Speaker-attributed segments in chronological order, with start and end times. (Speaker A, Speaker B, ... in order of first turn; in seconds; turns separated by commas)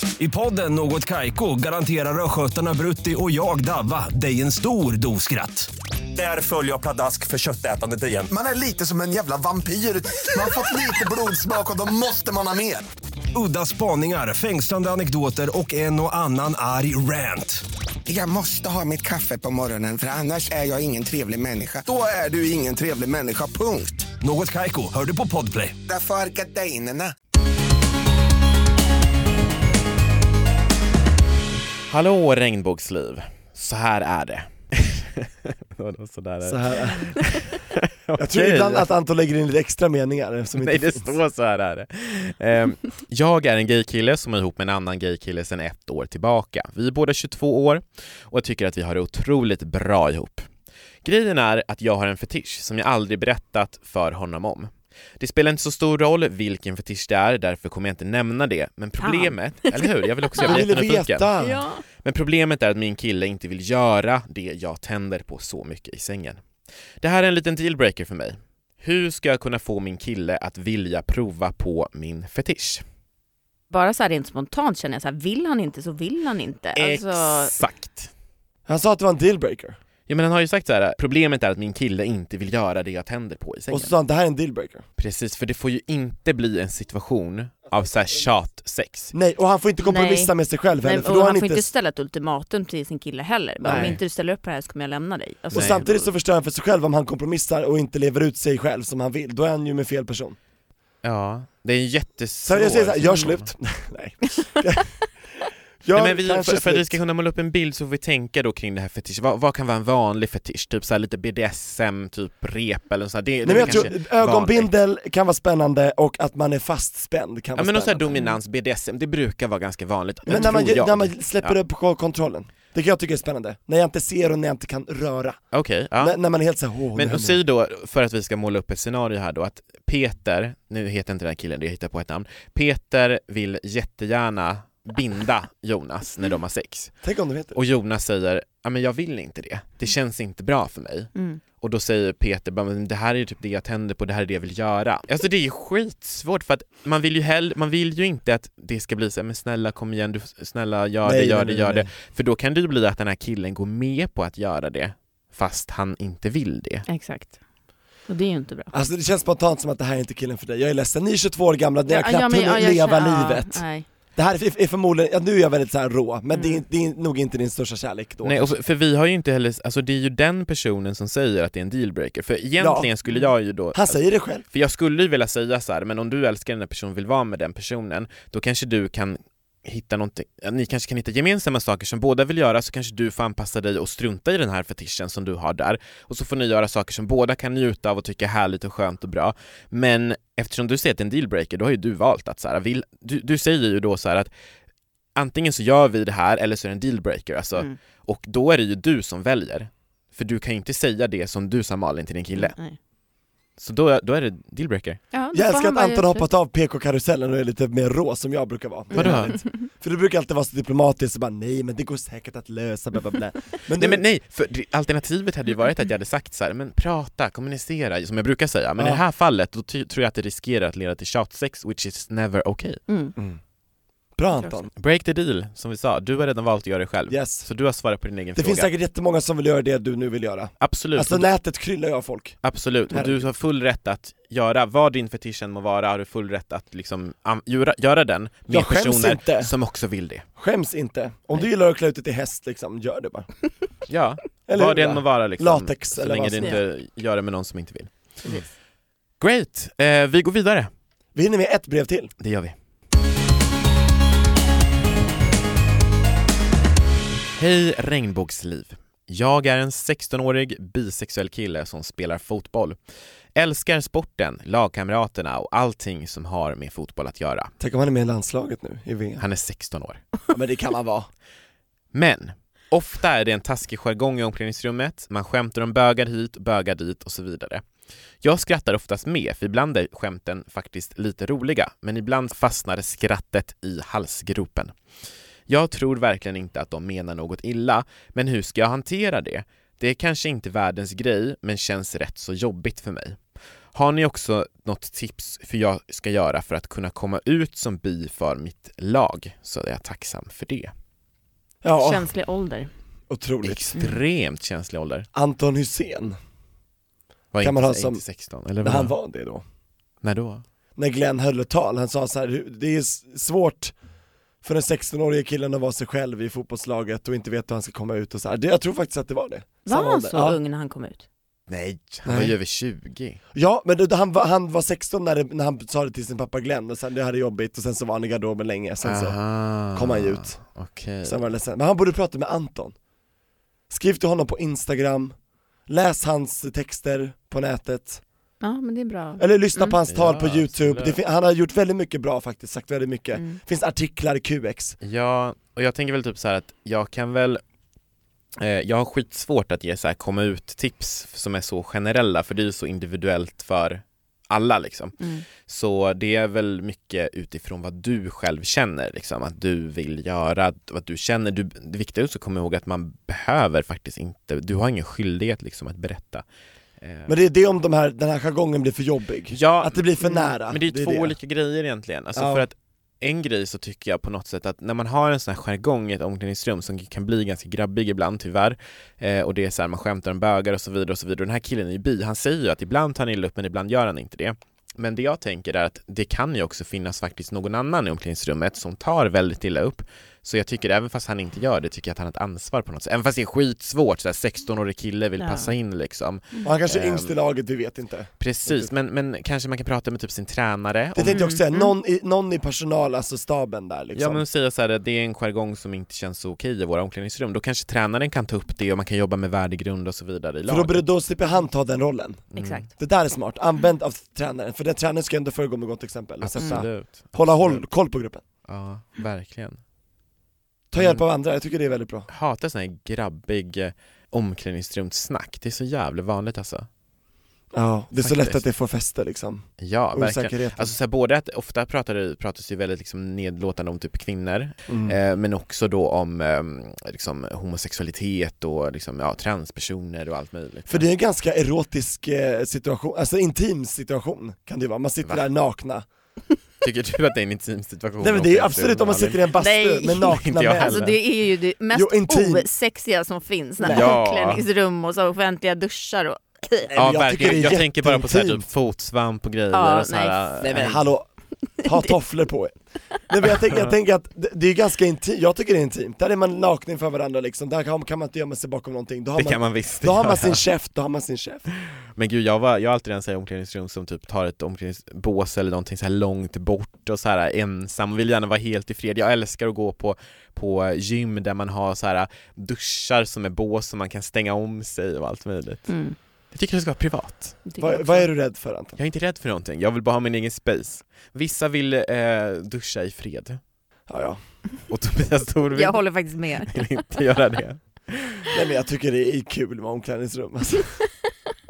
Speaker A: 0.2-8.3, Speaker B: 8.3-12.9, Speaker A: 13.3-17.6, Speaker B: 18.1-24.1, Speaker A: 24.2-25.8, Speaker B: 25.9-27.1, Speaker C: 31.9-38.9, Speaker D: 36.4-37.2, Speaker D: 38.2-41.1, Speaker C: 40.6-50.5, Speaker C: 51.0-61.3, Speaker E: 59.0-60.6, Speaker D: 60.4-61.6, Speaker E: 61.4-61.8, Speaker C: 62.0-66.4, Speaker C: 67.0-72.8, Speaker E: 73.7-77.5, Speaker C: 76.8-78.1, Speaker D: 78.7-79.8, Speaker C: 80.1-83.9, Speaker D: 83.7-84.8, Speaker C: 85.0-89.1, Speaker D: 89.1-91.7, Speaker E: 89.8-96.1, Speaker D: 93.6-94.0, Speaker C: 93.7-94.0, Speaker C: 95.5-95.9, Speaker D: 95.5-100.4, Speaker C: 101.0-103.5, Speaker D: 102.5-104.9, Speaker D: 105.8-107.0, Speaker C: 105.9-114.7, Speaker D: 113.4-118.2, Speaker C: 117.6-121.5, Speaker D: 120.3-125.4, Speaker C: 125.5-126.2, Speaker D: 126.0-127.4, Speaker C: 127.0-136.9, Speaker D: 137.0-137.6, Speaker C: 137.5-156.8, Speaker E: 141.2-141.4, Speaker D: 151.0-151.9, Speaker E: 156.9-157.4, Speaker E: 158.1-158.7, Speaker D: 158.7-163.7, Speaker E: 161.9-163.9, Speaker D: 164.2-168.5, Speaker E: 166.3-166.6, Speaker C: 168.2-174.0, Speaker D: 172.6-172.9, Speaker D: 173.7-174.4, Speaker C: 174.5-194.3, Speaker C: 195.2-202.6, Speaker E: 202.4-202.8, Speaker C: 203.6-205.0, Speaker E: 205.1-206.3, Speaker D: 205.3-214.0, Speaker E: 208.9-209.6, Speaker C: 208.9-209.4, Speaker C: 213.8-222.8, Speaker D: 218.8-219.0, Speaker E: 222.9-223.2, Speaker D: 224.2-224.7, Speaker C: 224.8-228.7, Speaker D: 227.1-227.5, Speaker D: 228.4-232.4, Speaker C: 230.6-231.3, Speaker C: 232.4-240.2, Speaker D: 232.9-233.3, Speaker D: 238.5-239.5, Speaker D: 240.4-243.3, Speaker C: 243.9-247.9, Speaker D: 244.5-246.6, Speaker C: 249.2-250.7, Speaker D: 251.2-252.1, Speaker C: 252.2-252.6, Speaker C: 257.4-262.8, Speaker C: 263.4-267.5, Speaker D: 267.6-269.2, Speaker C: 269.2-270.0, Speaker D: 270.3-271.1, Speaker C: 271.9-277.6, Speaker C: 278.2-284.7, Speaker C: 285.5-293.2, Speaker C: 293.7-300.7, Speaker D: 301.6-302.1, Speaker E: 301.8-302.7, Speaker D: 303.1-303.7, Speaker C: 303.4-305.1, Speaker D: 305.1-306.2, Speaker C: 307.3-308.9, Speaker D: 307.4-308.0, Speaker D: 308.6-309.4, Speaker C: 310.0-310.4, Speaker D: 310.8-313.7, Speaker D: 314.4-320.4, Speaker E: 319.7-321.0, Speaker C: 321.5-323.2, Speaker D: 322.1-322.4, Speaker D: 323.3-329.2, Speaker C: 328.8-331.2, Speaker D: 329.7-330.4, Speaker D: 331.0-332.8, Speaker D: 333.7-335.1, Speaker D: 335.7-338.0, Speaker E: 338.4-339.8, Speaker D: 339.2-344.8, Speaker C: 339.9-341.0, Speaker E: 343.1-343.4, Speaker C: 344.8-347.4, Speaker C: 348.4-366.2, Speaker E: 355.0-355.2, Speaker C: 366.8-367.1, Speaker D: 367.1-371.1, Speaker C: 369.3-397.1, Speaker D: 372.1-372.5, Speaker E: 395.2-395.5, Speaker D: 396.4-398.7, Speaker C: 398.2-401.3, Speaker D: 400.9-404.2, Speaker E: 401.1-401.7, Speaker C: 403.9-410.9, Speaker D: 410.5-418.2, Speaker C: 412.3-412.7, Speaker E: 412.4-412.7, Speaker C: 416.2-417.6, Speaker C: 418.5-419.6, Speaker D: 420.7-422.1, Speaker C: 420.8-421.0, Speaker C: 422.1-426.7, Speaker D: 427.5-430.7, Speaker C: 428.0-428.4, Speaker C: 429.6-440.9, Speaker D: 434.7-435.0, Speaker D: 440.7-445.9, Speaker C: 446.6-449.3, Speaker D: 448.0-450.8, Speaker E: 449.4-456.7, Speaker C: 450.1-451.0, Speaker D: 451.7-452.5, Speaker D: 453.6-454.0, Speaker C: 453.7-454.5, Speaker D: 456.7-458.4, Speaker C: 456.8-460.9, Speaker E: 459.5-460.7, Speaker D: 460.4-461.1, Speaker E: 461.6-461.9, Speaker D: 461.6-462.6, Speaker D: 463.1-471.5, Speaker C: 469.2-470.4, Speaker C: 472.0-485.7, Speaker E: 485.7-486.0, Speaker C: 486.3-487.4, Speaker E: 487.5-488.1, Speaker D: 487.6-488.8, Speaker C: 488.8-493.4, Speaker D: 493.9-494.2, Speaker C: 494.7-495.8, Speaker E: 495.5-496.6, Speaker C: 496.4-498.3, Speaker D: 498.3-500.7